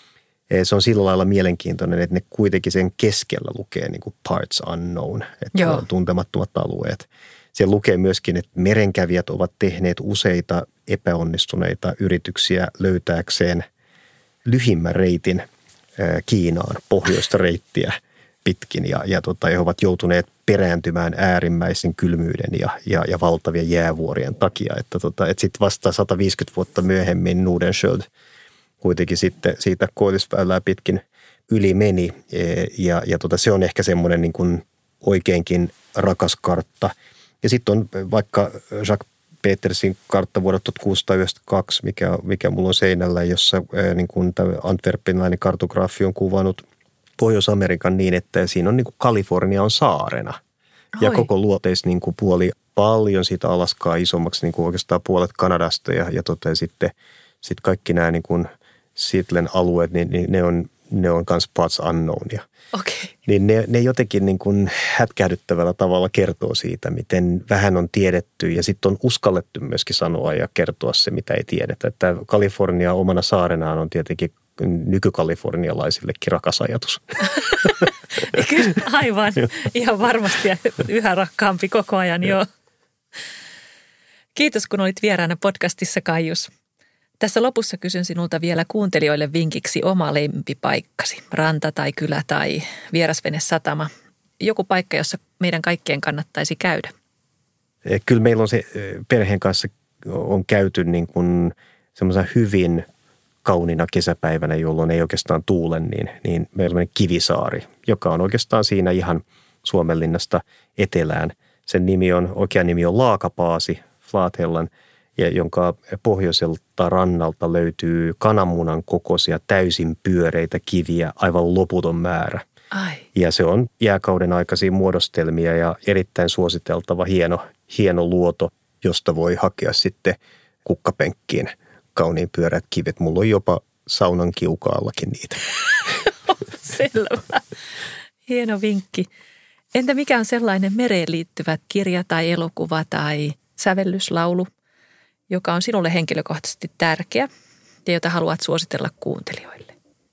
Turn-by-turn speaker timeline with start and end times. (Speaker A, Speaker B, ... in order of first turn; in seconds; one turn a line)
Speaker A: 0.5-13.6
Speaker B: 5.5-5.8
Speaker A: 14.4-15.4
Speaker A: 16.0-17.9
Speaker A: 18.4-28.1
Speaker A: 28.8-46.6
Speaker A: 47.2-50.4
Speaker B: 51.0-51.3
Speaker A: 51.0-62.4
Speaker B: 62.7-63.1
Speaker A: 63.2-77.7
Speaker B: 77.5-82.5
Speaker B: 84.3-86.5
Speaker B: 87.2-96.9
Speaker A: 97.8-102.8
Speaker A: 103.4-122.4
Speaker B: 122.7-123.0
Speaker A: 123.1-135.4
Speaker B: 136.0-137.4
Speaker B: 138.3-139.1
Speaker B: 139.7-144.5
Speaker B: 145.3-147.3
Speaker B: 147.8-149.7